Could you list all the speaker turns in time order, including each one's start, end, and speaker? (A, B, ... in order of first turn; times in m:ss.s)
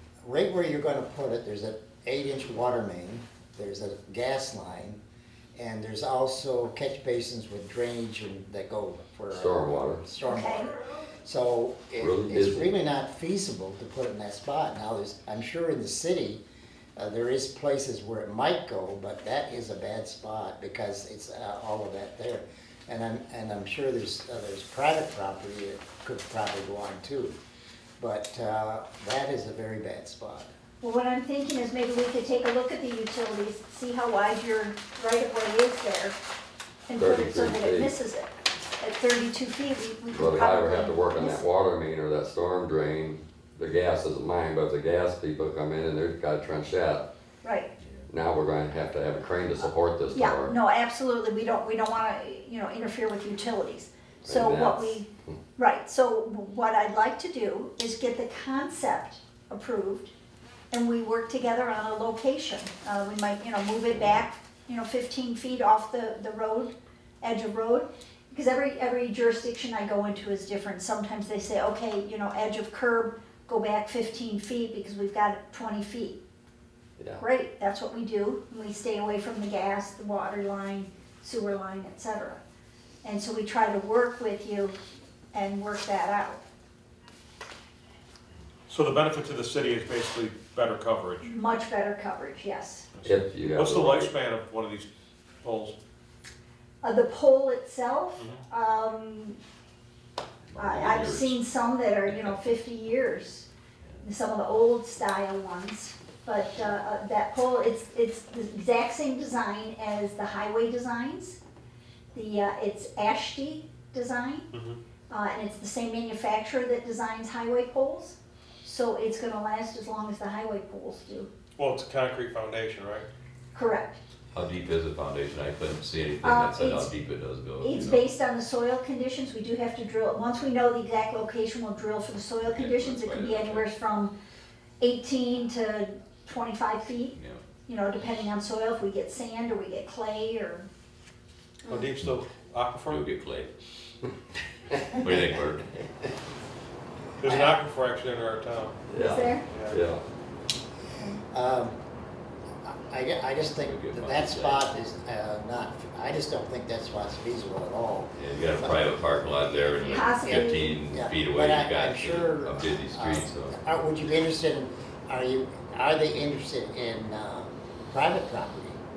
0:00.2-0:05.0 A
0:05.6-0:16.4 A
0:09.3-0:10.0 B
0:10.2-0:10.7 C
0:12.0-0:12.7 B
0:17.0-0:27.3 A
0:28.0-0:30.5 A
0:30.8-0:36.1 C
0:36.9-0:41.4 C
0:36.9-0:37.9 B
0:40.1-0:47.0 B
0:47.4-0:47.7 C
0:47.8-0:48.1 D
0:48.1-0:50.6 B
0:50.1-1:00.1 C
0:54.2-0:55.0 B
1:00.7-1:16.2 C
1:17.2-1:22.4 C
1:23.0-1:24.7 C
1:25.3-1:26.4 C
1:28.7-1:31.3 E
1:31.2-1:32.9 C
1:32.9-1:34.9 E
1:33.0-1:34.1 B
1:35.4-1:35.7 E
1:36.8-1:39.4 C
1:38.2-1:38.4 E
1:40.5-1:41.4 D
1:40.6-1:43.5 C
1:42.1-1:42.3 D
1:44.0-1:51.4 C
1:52.1-1:54.5 C
1:54.5-1:54.8 E
1:55.1-2:01.3 C
2:01.6-2:03.1 E
2:03.5-2:04.0 C
2:04.3-2:08.0 D
2:06.2-2:06.9 C
2:07.6-2:14.1 C
2:12.4-2:13.6 D
2:14.8-2:20.7 C
2:17.2-2:17.4 D
2:21.6-2:23.0 E
2:22.9-2:23.5 D
2:24.9-2:25.7 D
2:27.2-2:28.8 E
2:27.2-2:27.5 A
2:28.9-2:30.0 B
2:28.9-2:29.4 C
2:29.4-2:29.8 E
2:31.3-2:31.8 A
2:32.6-2:48.8 A
2:33.6-2:34.6 D
2:38.2-2:43.6 D
2:39.9-2:40.7 C